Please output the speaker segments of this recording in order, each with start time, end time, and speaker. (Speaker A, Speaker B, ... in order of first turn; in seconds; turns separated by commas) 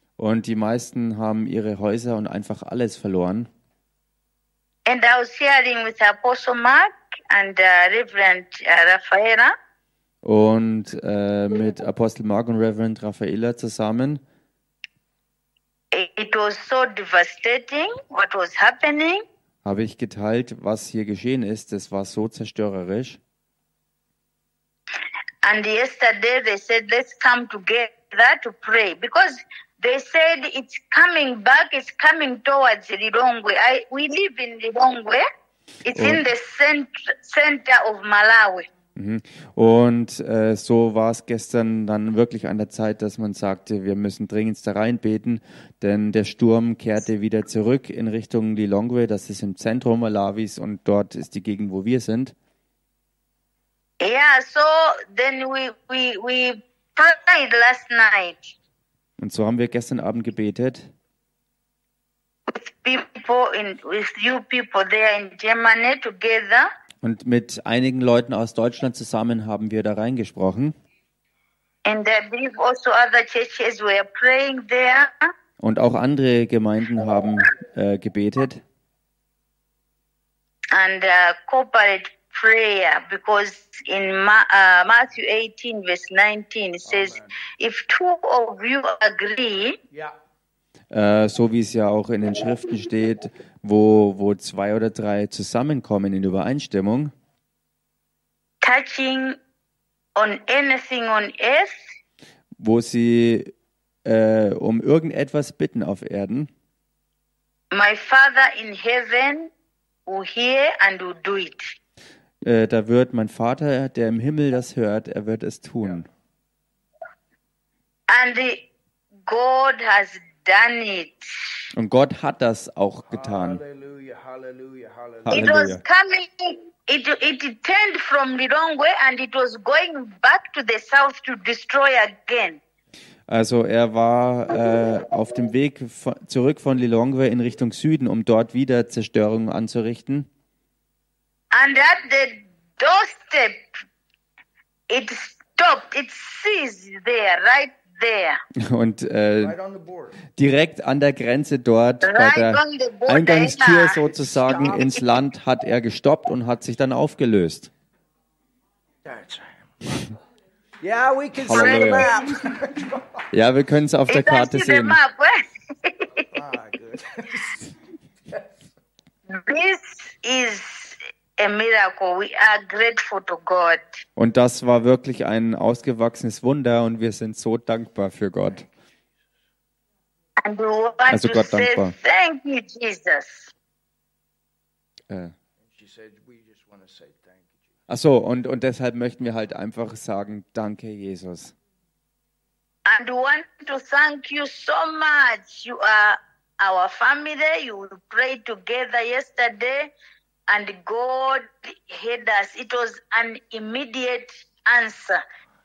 Speaker A: 0.2-3.5, Speaker B: 4.8-9.5, Speaker A: 10.2-14.2, Speaker B: 15.9-19.2, Speaker A: 19.6-23.2, Speaker B: 25.4-35.2, Speaker B: 35.9-38.7, Speaker A: 35.9-36.2, Speaker A: 39.0-52.3, Speaker B: 54.0-58.5, Speaker A: 59.2-60.9, Speaker B: 62.5-66.7, Speaker A: 67.0-70.8, Speaker B: 71.8-75.3, Speaker A: 75.6-78.6, Speaker B: 80.7-89.8, Speaker C: 86.8-87.3, Speaker A: 90.9-97.1, Speaker B: 98.6-99.4, Speaker B: 100.2-101.8, Speaker A: 102.6-103.5, Speaker A: 104.0-106.5, Speaker B: 107.7-109.5, Speaker B: 110.0-111.7, Speaker A: 112.4-116.1, Speaker B: 118.1-118.7, Speaker B: 119.3-121.5, Speaker A: 121.7-123.6, Speaker C: 123.1-125.5, Speaker A: 125.2-125.8, Speaker B: 125.3-132.6, Speaker A: 133.3-140.3, Speaker B: 141.5-143.8, Speaker B: 144.9-148.4, Speaker A: 148.6-149.6, Speaker C: 149.4-150.2, Speaker A: 150.3-157.7, Speaker B: 152.0-154.0, Speaker C: 154.1-155.1, Speaker C: 159.0-160.1, Speaker C: 160.8-163.2, Speaker A: 161.5-162.1, Speaker B: 161.5-162.2, Speaker A: 163.3-165.0, Speaker B: 164.1-166.2, Speaker C: 166.3-167.7, Speaker B: 169.3-173.8, Speaker A: 174.2-178.7, Speaker B: 180.4-183.5, Speaker A: 181.1-181.9, Speaker A: 185.1-185.3, Speaker C: 185.6-187.6, Speaker A: 187.9-191.5, Speaker B: 192.8-199.9, Speaker B: 200.5-205.2